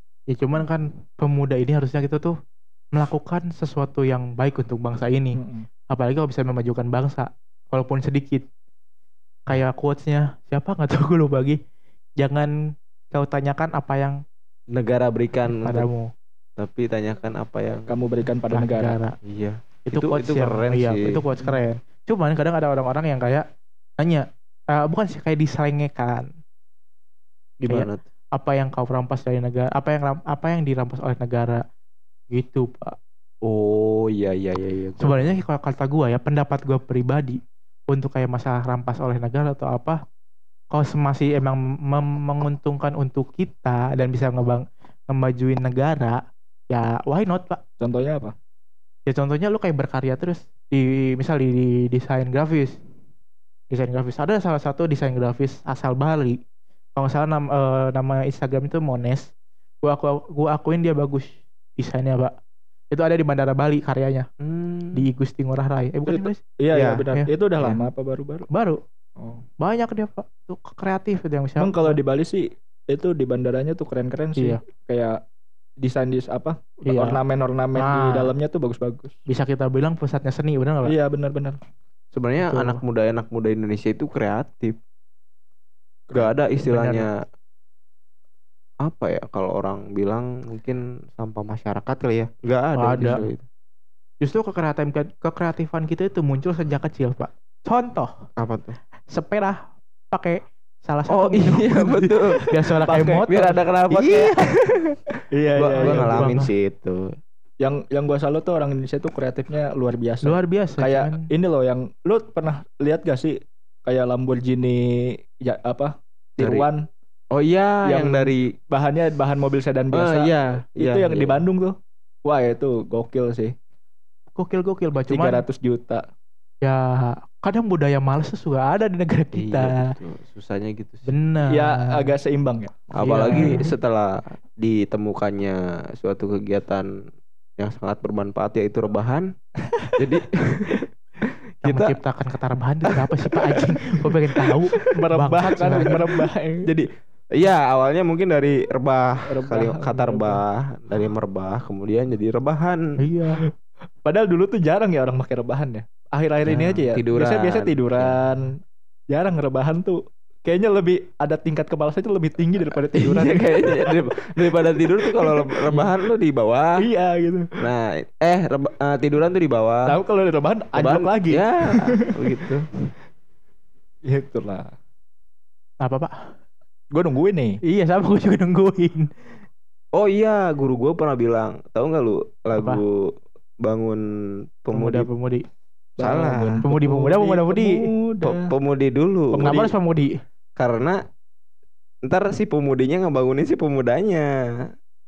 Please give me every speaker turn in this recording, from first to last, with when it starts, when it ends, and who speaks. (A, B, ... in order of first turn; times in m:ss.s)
0:00.3-0:02.4 A
0:02.9-0:05.4 A
0:05.3-0:05.7 B
0:05.9-0:08.4 A
0:09.5-0:11.6 A
0:12.2-0:12.5 A
0:13.1-0:14.2 A
0:14.7-0:15.9 C
0:15.5-0:16.1 A
0:16.6-0:17.9 C
0:17.9-0:19.0 B
0:18.5-0:19.2 A
0:19.2-0:21.2 C
0:19.9-0:23.5 A
0:24.0-0:26.3 A
0:27.6-0:28.0 C
0:27.7-0:31.6 A
0:32.3-0:33.0 A
0:33.4-0:35.4 C
0:35.0-0:40.0 A
0:40.7-0:47.6 A
0:47.8-0:48.4 B
0:49.1-0:52.8 A
0:53.7-0:56.4 A
0:57.0-0:59.3 A
0:59.8-1:02.3 A
1:02.9-1:04.3 A
1:04.4-1:05.1 C
1:04.9-1:06.4 A
1:06.1-1:08.5 B
1:06.7-1:07.0 C
1:08.5-1:08.8 A
1:09.6-1:12.0 A
1:11.6-1:15.2 B
1:15.8-1:19.2 B
1:16.8-1:17.2 A
1:17.8-1:18.3 A
1:19.3-1:21.0 A
1:20.8-1:21.6 B
1:22.1-1:24.8 C
1:22.4-1:22.8 A
1:26.1-1:27.2 C
1:26.7-1:27.1 A
1:28.8-1:33.4 C
1:32.8-1:33.3 A
1:34.2-1:38.1 A
1:38.4-1:38.8 C
1:39.1-1:39.6 A
1:40.1-1:44.5 A
1:41.1-1:42.5 C
1:42.9-1:43.3 B
1:43.3-1:44.6 C
1:45.3-1:46.1 B
1:45.6-1:47.1 C
1:45.8-1:46.5 A
1:47.6-1:56.8 B
1:50.2-1:51.3 A
1:56.4-1:56.7 C
1:57.3-1:58.5 C
1:57.9-2:03.5 B
1:59.9-2:01.4 C
2:04.4-2:05.4 A
2:05.1-2:06.0 B
2:06.6-2:09.9 A
2:09.3-2:11.1 C
2:11.1-2:12.2 A
2:11.5-2:13.6 B
2:13.0-2:16.9 C
2:13.0-2:13.6 A
2:17.6-2:19.3 C
2:20.0-2:20.9 C
2:21.6-2:22.0 C
2:21.6-2:26.1 A
2:22.8-2:23.7 C
2:24.8-2:26.7 B
2:26.6-2:32.8 C
2:29.3-2:30.4 B
2:33.0-2:33.4 A
2:34.0-2:38.6 B
2:36.5-2:38.2 C
2:39.1-2:44.1 B
2:42.9-2:46.8 C
2:45.0-2:46.0 B
2:46.8-2:47.6 B
2:47.6-2:50.0 C
2:49.9-2:52.3 B
2:50.8-2:52.7 C
2:54.1-2:54.7 B
2:55.8-2:56.1 A
2:56.9-2:57.6 B
2:57.6-2:59.1 A
3:00.0-3:04.0 C
3:02.6-3:02.8 A
3:04.6-3:05.1 C
3:04.7-3:05.4 A
3:06.0-3:08.5 B
3:06.0-3:06.6 C
3:06.6-3:07.9 A
3:08.2-3:09.7 C
3:09.3-3:10.2 A
3:10.6-3:11.0 C
3:12.0-3:14.3 C